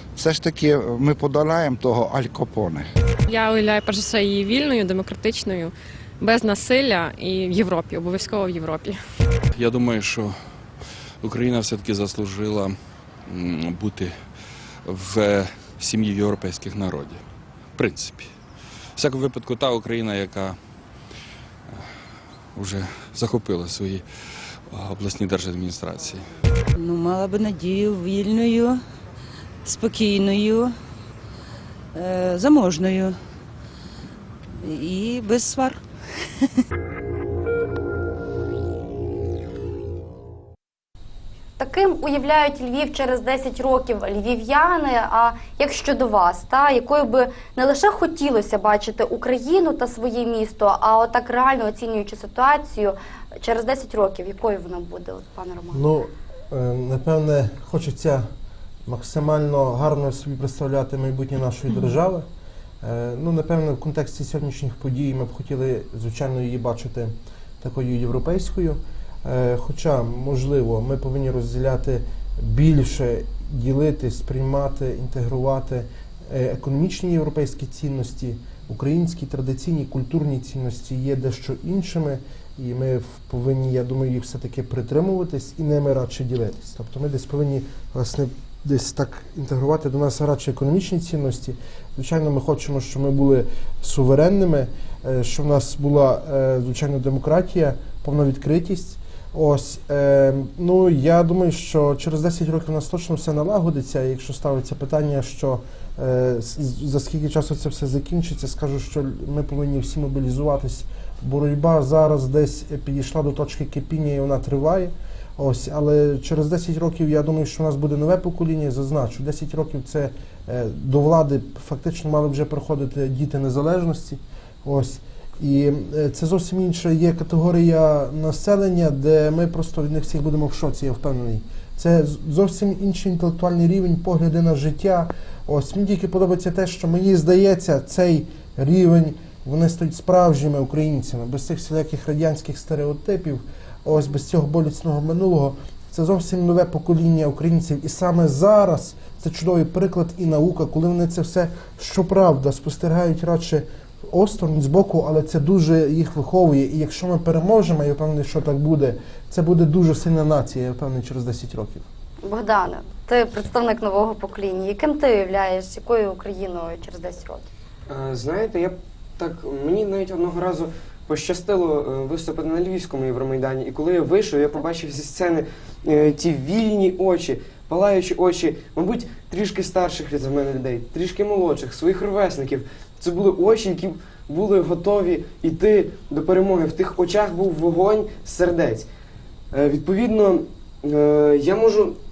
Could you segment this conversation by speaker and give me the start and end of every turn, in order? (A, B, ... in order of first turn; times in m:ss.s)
0:00.3-0:02.8 A
0:03.3-0:09.0 B
0:09.5-0:10.4 C
0:11.2-0:14.3 C
0:14.8-0:17.2 C
0:17.7-0:18.3 C
0:19.0-0:20.6 C
0:22.5-0:26.2 C
0:26.7-0:28.8 D
0:29.6-0:30.7 D
0:31.9-0:33.2 D
0:34.6-0:35.8 D
0:41.6-0:55.8 E
0:55.7-0:58.2 F
0:58.8-1:02.2 F
1:02.8-2:41.8 F
2:42.2-2:47.5 E
2:47.9-3:08.9 G
3:09.5-3:12.0 G